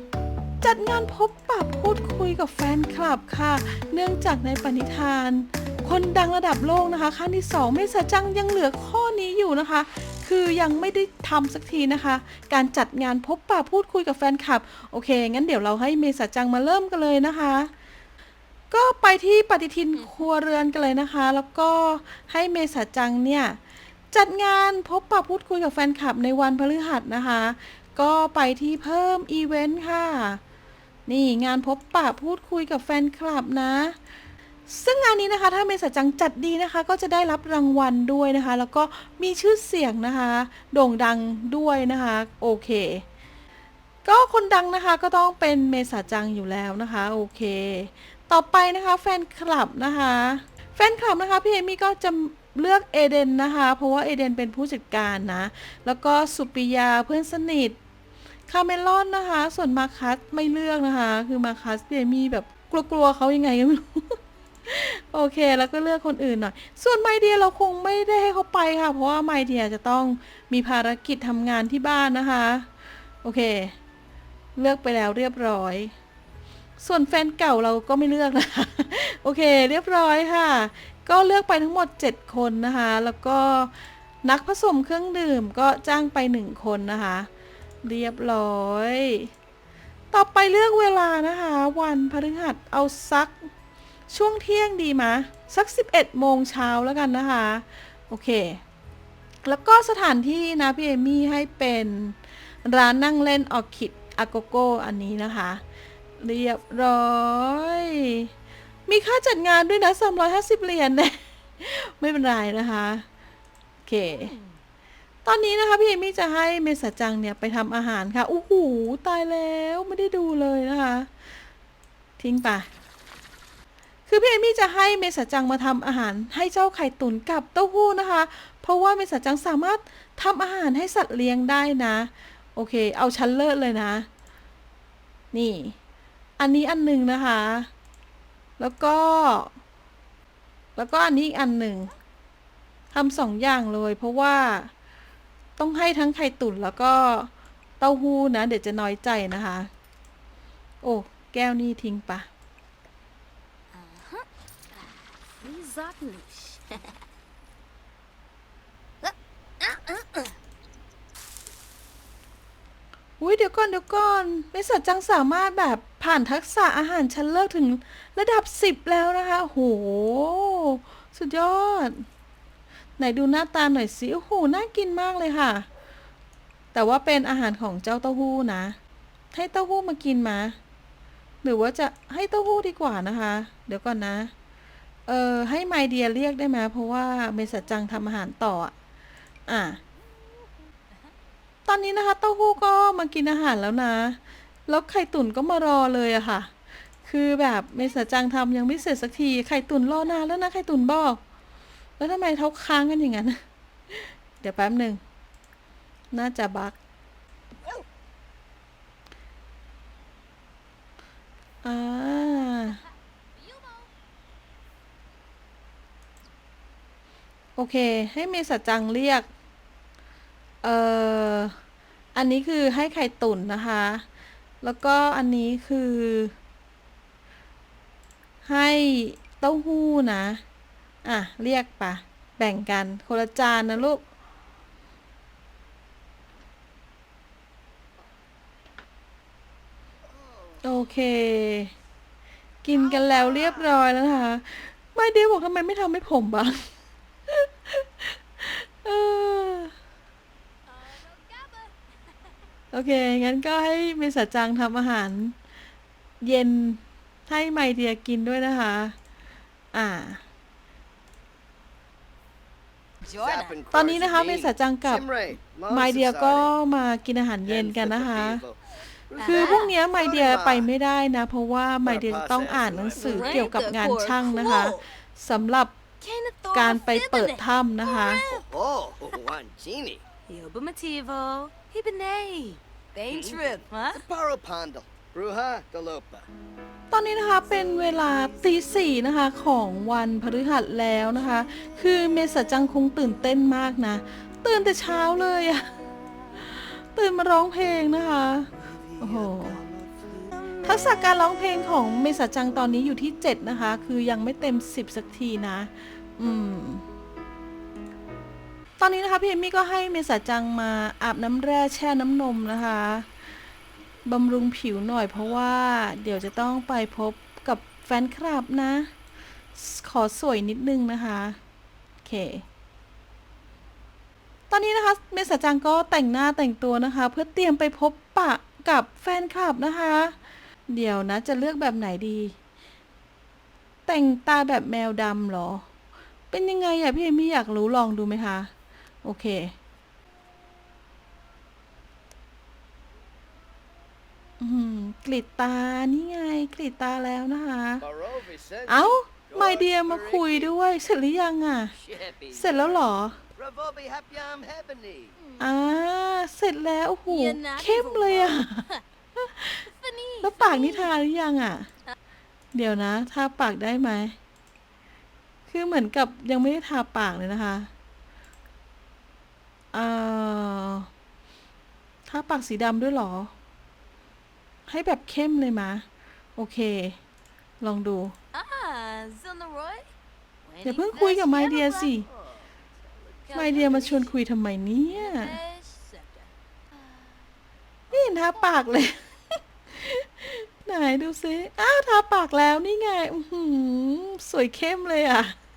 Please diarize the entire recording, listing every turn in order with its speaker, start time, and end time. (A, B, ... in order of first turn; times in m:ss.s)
0:00.6-0:17.7 A
0:18.7-0:23.6 A
0:24.1-0:30.4 A
0:31.1-0:34.0 A
0:34.7-0:43.0 A
0:44.0-0:57.8 A
0:58.5-1:12.7 A
1:13.2-1:13.8 A
1:14.6-1:16.0 A
1:16.8-1:23.7 A
1:24.2-1:27.3 A
1:27.8-1:29.3 A
1:30.1-1:33.5 A
1:34.1-1:38.6 A
1:39.4-1:45.6 A
1:46.2-1:48.3 A
1:48.9-1:53.1 A
1:53.9-1:54.4 A
1:55.2-2:01.1 A
2:02.2-2:02.7 A
2:04.1-2:14.1 A
2:15.3-2:15.8 A
2:16.4-2:17.7 A
2:18.6-2:19.5 A
2:20.8-2:21.9 A
2:22.9-2:24.7 A
2:25.6-2:29.7 A
2:30.8-2:32.3 A
2:33.7-2:34.3 B
2:35.4-2:37.0 B
2:39.0-2:40.3 B
2:43.2-2:52.1 A
2:53.0-2:55.7 A
2:56.7-2:58.8 A
2:59.3-3:00.6 A
3:01.4-3:04.3 A
3:05.1-3:08.7 A
3:09.5-3:09.8 A
3:11.7-3:16.5 A
3:17.0-3:21.2 A
3:22.0-3:25.0 A
3:26.1-3:26.8 A
3:31.6-3:32.8 A
3:33.4-3:33.9 B
3:37.6-3:39.3 A
3:40.6-3:41.6 A
3:42.2-3:44.0 A
3:44.6-3:46.3 A
3:48.4-3:50.4 A
3:51.0-3:54.0 A
4:00.6-4:01.7 A
4:02.6-4:06.7 A
4:07.3-4:09.7 A
4:10.8-4:11.7 B
4:12.7-4:15.4 A
4:16.2-4:19.0 A
4:19.7-4:20.2 A
4:23.1-4:23.5 B
4:23.2-4:26.5 C
4:23.7-4:28.4 A
4:27.6-4:28.5 C
4:29.2-4:29.6 C
4:29.2-4:35.8 A
4:29.2-4:29.7 B
4:30.2-4:30.6 C
4:32.2-4:33.1 C
4:33.0-4:34.8 B
4:36.0-4:38.5 B
4:36.5-4:38.2 A
4:38.3-4:40.0 C
4:40.3-4:44.0 B
4:44.0-4:46.3 C
4:46.9-4:55.7 A
4:56.4-4:58.5 A
4:59.0-4:59.6 A
5:00.6-5:06.8 A
5:08.8-5:13.1 A
5:14.1-5:18.9 A
5:19.6-5:21.4 A
5:22.0-5:22.4 A
5:24.5-5:30.2 A
5:30.7-5:32.4 A
5:33.9-5:35.7 A
5:36.3-5:38.5 A
5:39.0-5:39.6 A
5:44.4-5:47.8 A
5:47.9-5:50.3 C
5:48.7-5:51.8 A
5:51.9-5:52.6 C
5:52.3-5:53.2 A
5:53.4-5:55.1 C
5:55.4-5:59.7 A
5:57.1-5:58.4 B
5:59.7-6:00.9 B
6:00.2-6:01.7 A
6:02.5-6:04.2 A
6:05.5-6:07.7 A
6:09.7-6:10.9 A
6:12.1-6:13.3 A
6:14.7-6:15.8 A
6:16.4-6:17.0 A
6:17.6-6:18.2 A
6:18.3-6:19.9 B
6:20.5-6:21.9 B
6:20.6-6:22.1 A
6:23.3-6:24.0 B
6:23.3-6:25.4 A
6:24.9-6:26.2 B
6:27.9-6:35.4 A